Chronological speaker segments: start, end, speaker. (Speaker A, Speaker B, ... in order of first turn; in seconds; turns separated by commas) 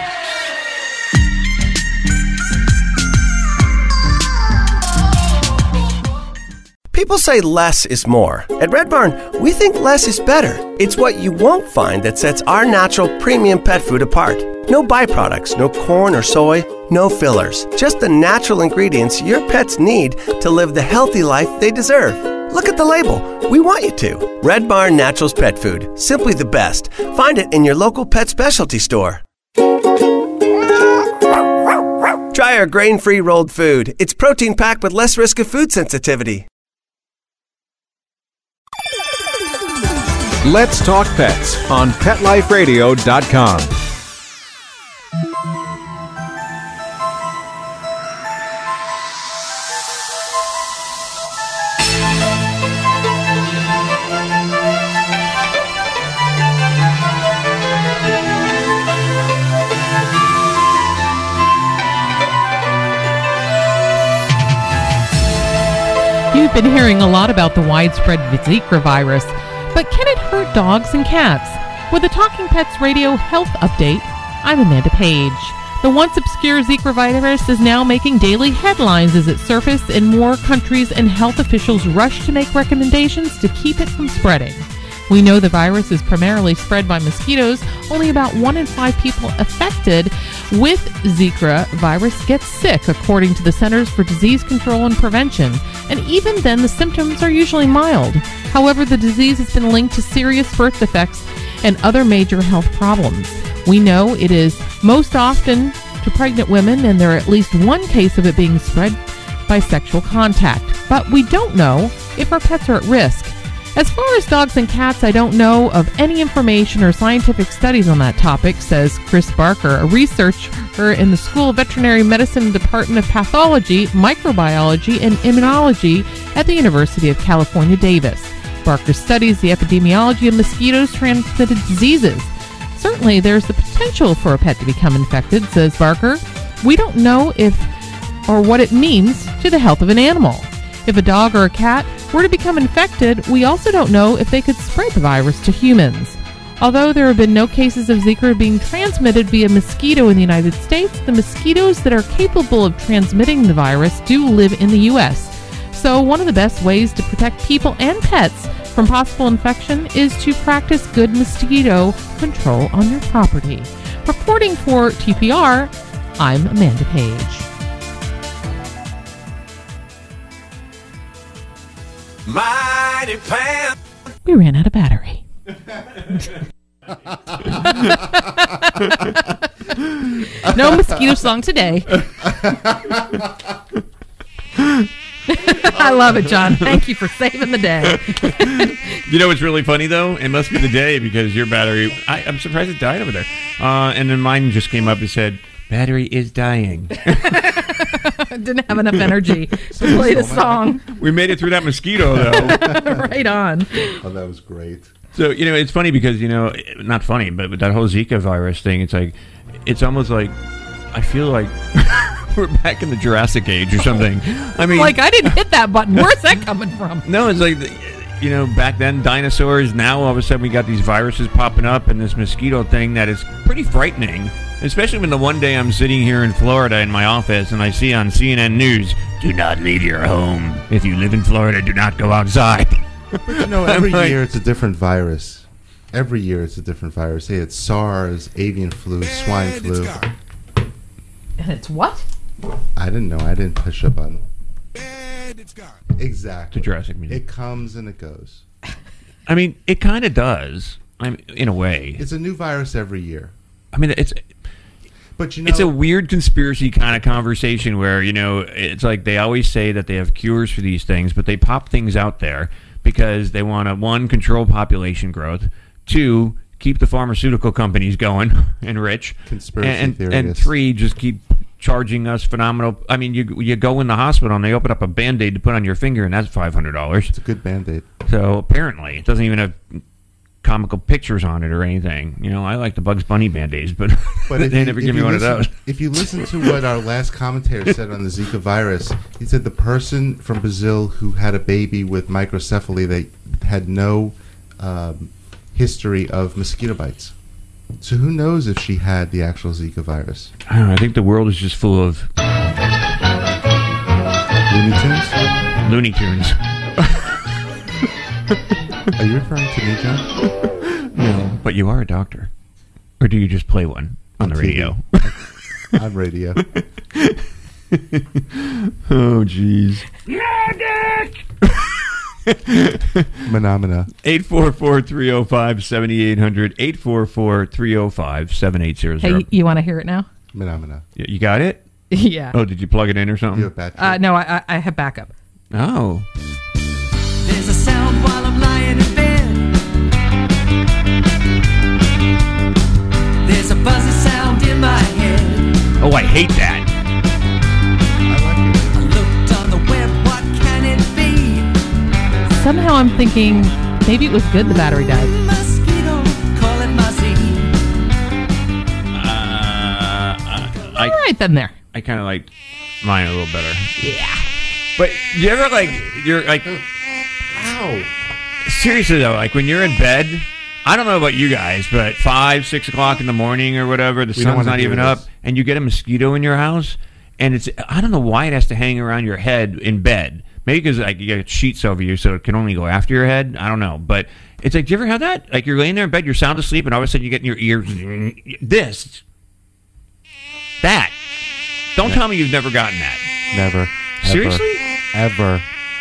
Speaker A: 6.9-29.2, Speaker A: 32.3-36.5, Speaker B: 40.4-43.7, Speaker C: 66.3-137.7, Speaker C: 138.3-167.5, Speaker B: 172.9-173.6, Speaker C: 174.2-175.2, Speaker C: 177.5-179.3, Speaker C: 180.2-182.0, Speaker D: 184.6-184.9, Speaker C: 185.3-188.9, Speaker D: 187.9-197.9, Speaker C: 197.1-200.8, Speaker E: 199.7-200.7, Speaker D: 200.9-202.6, Speaker E: 202.1-203.1, Speaker C: 202.2-204.0, Speaker E: 204.0-204.9, Speaker D: 205.1-210.3, Speaker D: 210.9-215.3, Speaker C: 214.6-217.1, Speaker D: 215.9-216.3, Speaker D: 217.0-234.2, Speaker E: 233.3-240.1, Speaker C: 241.4-242.1, Speaker E: 242.8-244.2, Speaker E: 246.0-248.4, Speaker D: 246.5-247.2, Speaker D: 249.3-252.0, Speaker E: 252.0-253.3, Speaker D: 253.7-254.2, Speaker E: 255.2-255.7, Speaker D: 255.4-277.1, Speaker E: 269.2-270.5, Speaker E: 277.1-277.9, Speaker D: 278.1-279.8, Speaker D: 280.4-285.5, Speaker E: 284.3-297.1, Speaker E: 297.8-300.3, Speaker D: 300.5-302.1, Speaker E: 304.5-305.2, Speaker D: 305.6-307.0, Speaker E: 309.0-310.1, Speaker D: 310.9-312.3, Speaker D: 313.0-315.0, Speaker E: 314.2-316.4, Speaker D: 316.5-323.2, Speaker E: 323.2-323.9, Speaker D: 324.0-329.3, Speaker C: 329.0-330.1, Speaker E: 330.3-330.8, Speaker D: 331.0-331.6, Speaker C: 331.9-332.4, Speaker D: 332.3-333.5, Speaker E: 333.3-334.0, Speaker C: 333.8-335.1, Speaker D: 335.5-336.1, Speaker F: 337.2-339.6, Speaker F: 343.2-345.7, Speaker D: 345.8-346.7, Speaker E: 348.1-348.9, Speaker F: 348.7-351.5, Speaker C: 352.3-355.1, Speaker F: 354.9-357.6, Speaker D: 358.9-361.0, Speaker C: 360.8-361.5, Speaker D: 361.7-362.3, Speaker D: 362.8-363.7, Speaker C: 363.8-364.2, Speaker D: 364.8-366.6, Speaker E: 367.3-367.9, Speaker D: 368.4-389.0, Speaker E: 374.1-375.0, Speaker D: 390.6-390.9, Speaker D: 391.8-393.0, Speaker E: 393.3-395.4, Speaker D: 394.0-394.6